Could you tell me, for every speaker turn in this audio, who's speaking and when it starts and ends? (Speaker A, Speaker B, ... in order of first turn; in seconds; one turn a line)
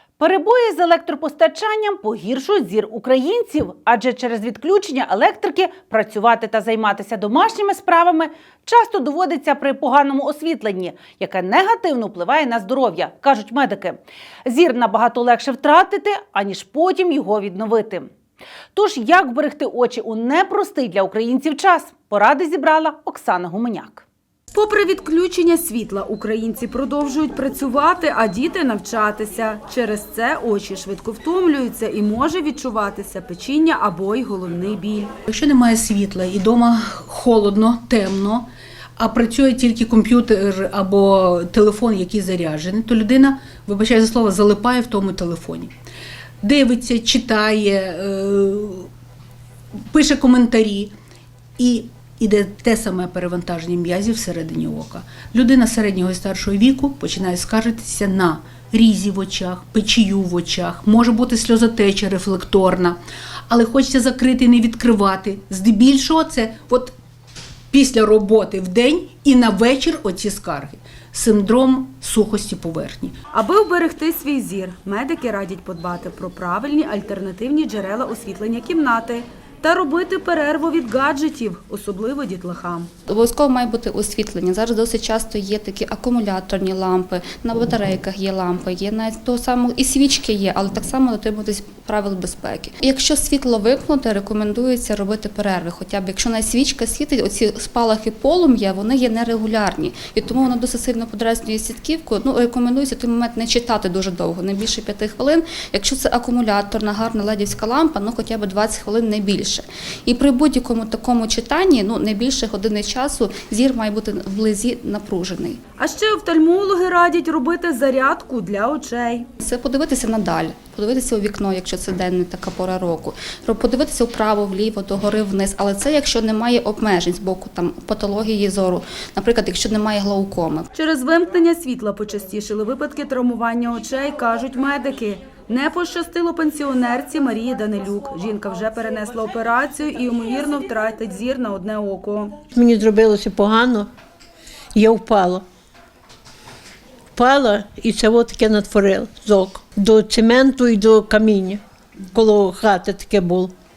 Speaker A: 0.2-18.1
Speaker A: 18.7-24.0
Speaker B: 24.5-35.1
Speaker C: 35.3-45.7
Speaker C: 46.4-48.9
Speaker C: 49.9-50.9
Speaker C: 51.6-66.9
Speaker C: 67.7-73.2
Speaker B: 73.3-82.9
Speaker D: 83.1-115.6
Speaker B: 115.8-119.3
Speaker D: 119.4-130.7
Speaker B: 130.7-142.3
Speaker E: 142.5-143.9
Speaker E: 144.7-145.4
Speaker E: 147.1-151.6
Speaker E: 152.1-153.5